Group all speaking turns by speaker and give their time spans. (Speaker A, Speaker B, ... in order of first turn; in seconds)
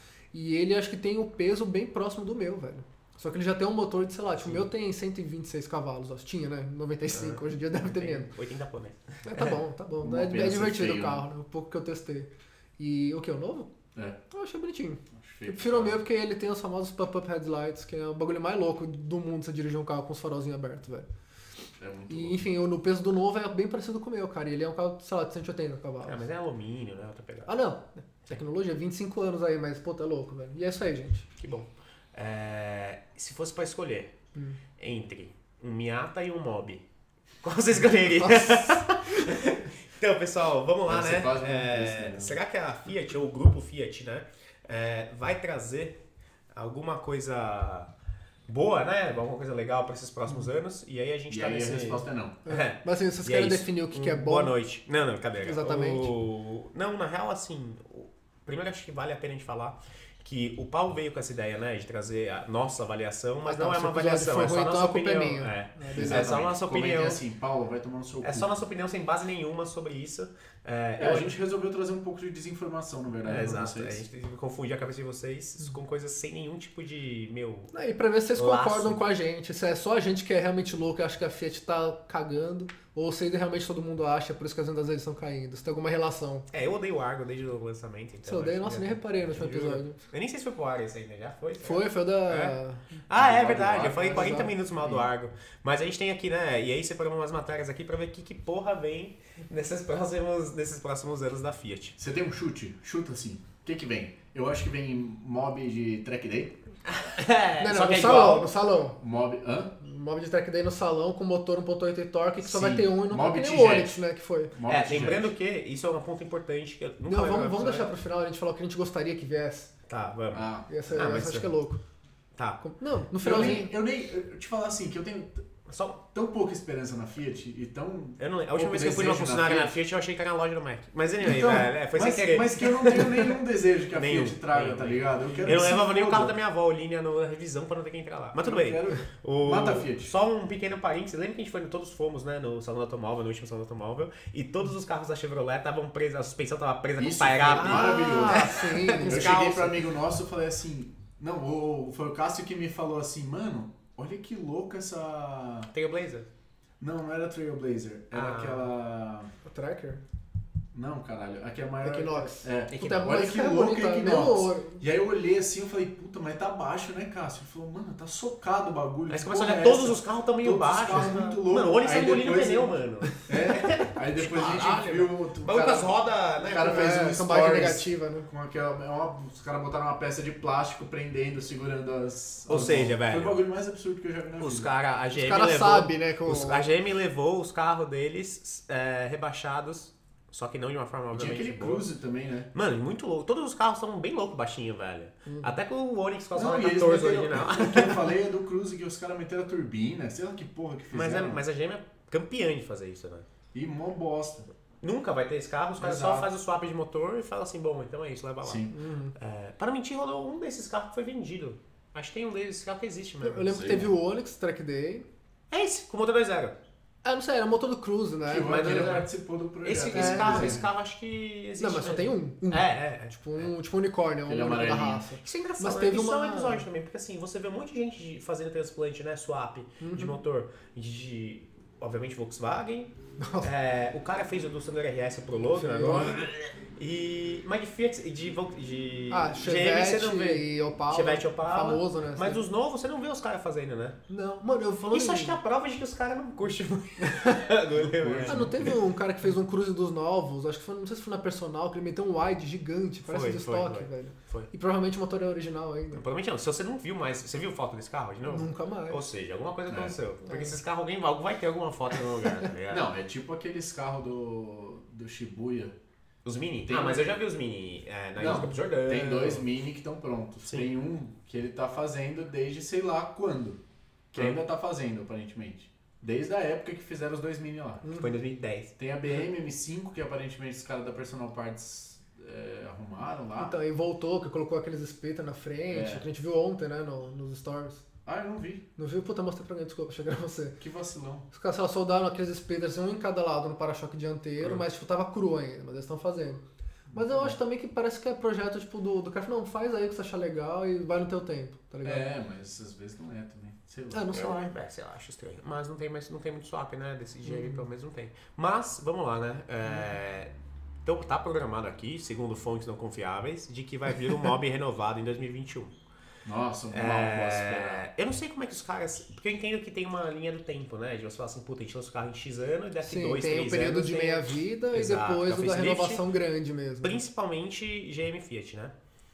Speaker A: 0.3-8.3, 9.3-13.7, 14.3-21.1, 22.1-26.2, 27.5-31.3, 38.2-39.2, 52.5-54.5, 55.4-56.1, 63.5-66.3, 77.7-86.5, 88.3-90.0, 91.6-93.0, 94.0-94.5, 107.6-109.0, 109.8-114.5, 117.1-119.7, 120.7-121.8, 122.6-123.7, 147.5-149.3, 159.4-160.0, 161.8-164.8, 176.6-178.3, 185.2-186.7, 195.3-195.5, 208.7-209.1, 213.2-215.1, 217.0-219.1, 219.9-220.6, 221.6-226.7, 229.8-230.2, 233.2-233.5, 235.6-236.3, 239.1-242.4, 244.1-245.4, 247.0-247.4, 248.3-256.0, 258.3-259.0, 260.3-260.6, 277.8-278.1, 283.4-287.9, 288.8-290.6, 291.3-296.4, 296.9-302.1, 303.9-304.5, 307.3-307.6, 322.8-327.0
Speaker B: 7.1-9.6, 26.0-27.5, 31.4-34.1, 34.8-36.8, 37.4-46.0, 46.5-47.9, 48.5-67.2, 68.2-71.3, 73.3-77.7, 78.3-79.0, 86.5-92.5, 93.1-102.0, 106.9-108.5, 114.7-117.9, 119.9-121.5, 122.4-122.6, 125.7-126.0, 128.2-133.1, 133.9-149.8, 155.7-156.3, 158.1-158.7, 162.7-163.1, 169.1-176.8, 182.5-183.4, 184.4-191.9, 192.5-198.1, 200.9-203.3, 204.8-213.5, 215.5-216.6, 218.4-219.1, 219.6-223.5, 225.2-244.0, 244.8-248.7, 253.1-254.5, 255.9-262.9, 266.2-269.5, 278.0-278.7, 304.1-310.3, 310.9-315.7, 316.7-326.0, 326.8-328.7
Speaker C: 10.0-11.3, 15.2-16.0, 21.8-22.4, 40.9-42.4, 51.3-52.4, 66.0-68.5, 71.0-74.0, 93.1-95.0, 102.0-106.6, 109.0-109.7, 112.4-114.0, 114.5-115.3, 120.3-120.7, 123.2-125.5, 126.1-129.8, 131.2-136.3, 138.4-140.1, 147.0-155.7, 156.8-159.3, 160.7-184.7, 191.1-192.5, 196.3-201.4, 203.5-204.5, 205.8-206.3, 208.4-208.7, 213.5-213.9, 218.3-220.7, 224.2-225.1, 247.8-248.8, 259.7-260.0, 262.7-265.7, 266.7-267.2, 268.2-273.6, 274.1-277.8, 278.8-283.5, 285.7-286.1, 288.1-288.6, 290.6-291.3, 296.9-297.4, 301.8-304.1, 316.2-317.9